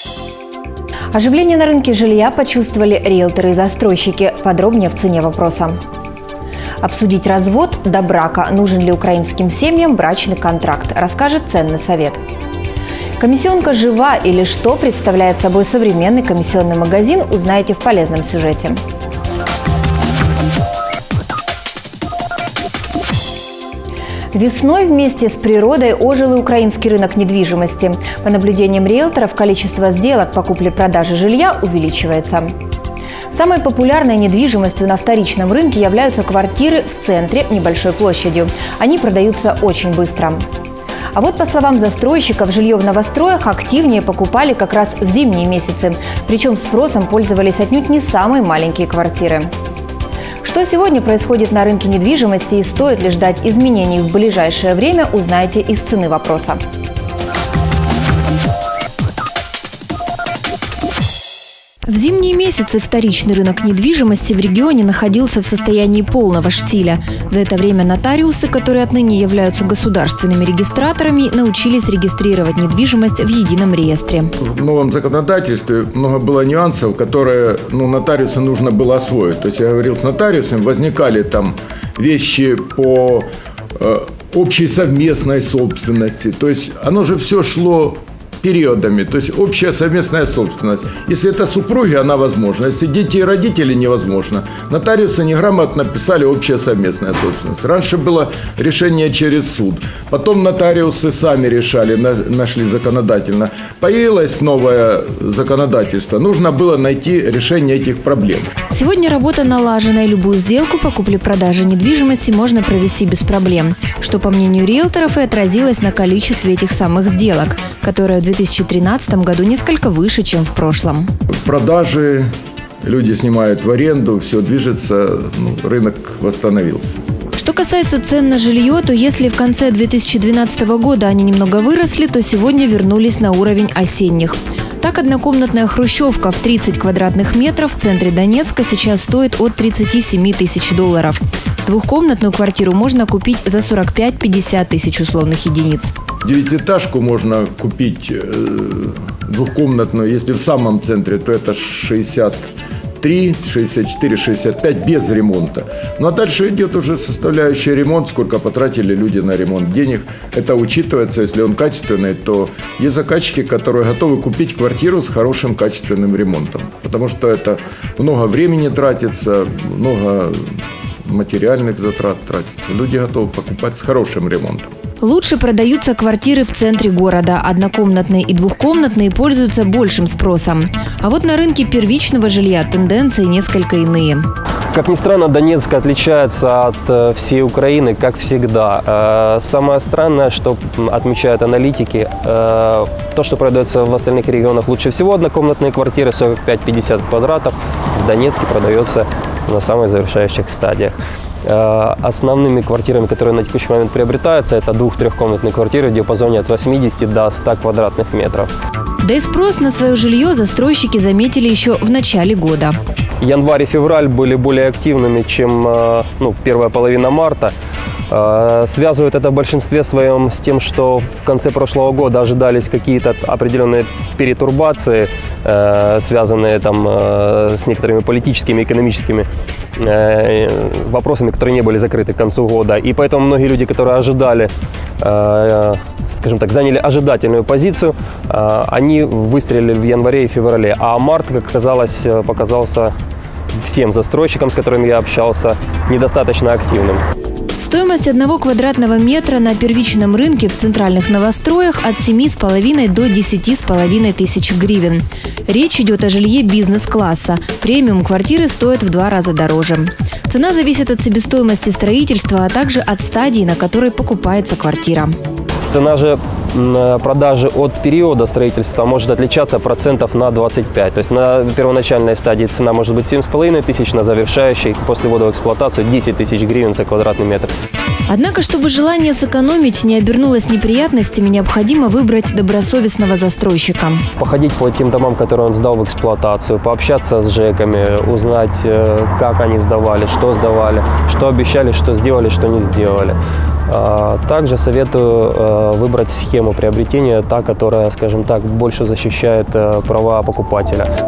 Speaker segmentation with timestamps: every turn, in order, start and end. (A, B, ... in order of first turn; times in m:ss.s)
0:01.1-0:05.8 A
0:06.8-0:12.2 A
0:13.2-0:18.8 A
0:24.3-0:32.5 A
0:33.3-0:40.4 A
0:41.1-0:49.5 A
0:50.4-0:56.6 A
1:01.9-1:14.3 A
1:14.4-1:48.5 B
1:48.7-2:01.1 A
2:01.4-2:02.3 B
2:02.8-2:07.0 B
2:07.4-2:25.9 A
2:26.2-2:54.7 B
2:55.0-3:04.3 A
3:04.7-3:28.5 C
3:29.0-3:32.8 A
3:33.2-3:37.5 C
3:38.1-4:02.9 C
4:03.6-4:07.0 C
4:07.6-4:25.1 A
4:25.7-4:37.5 C
4:38.1-4:44.1 A
4:44.2-4:53.2 C
4:53.7-5:00.9 C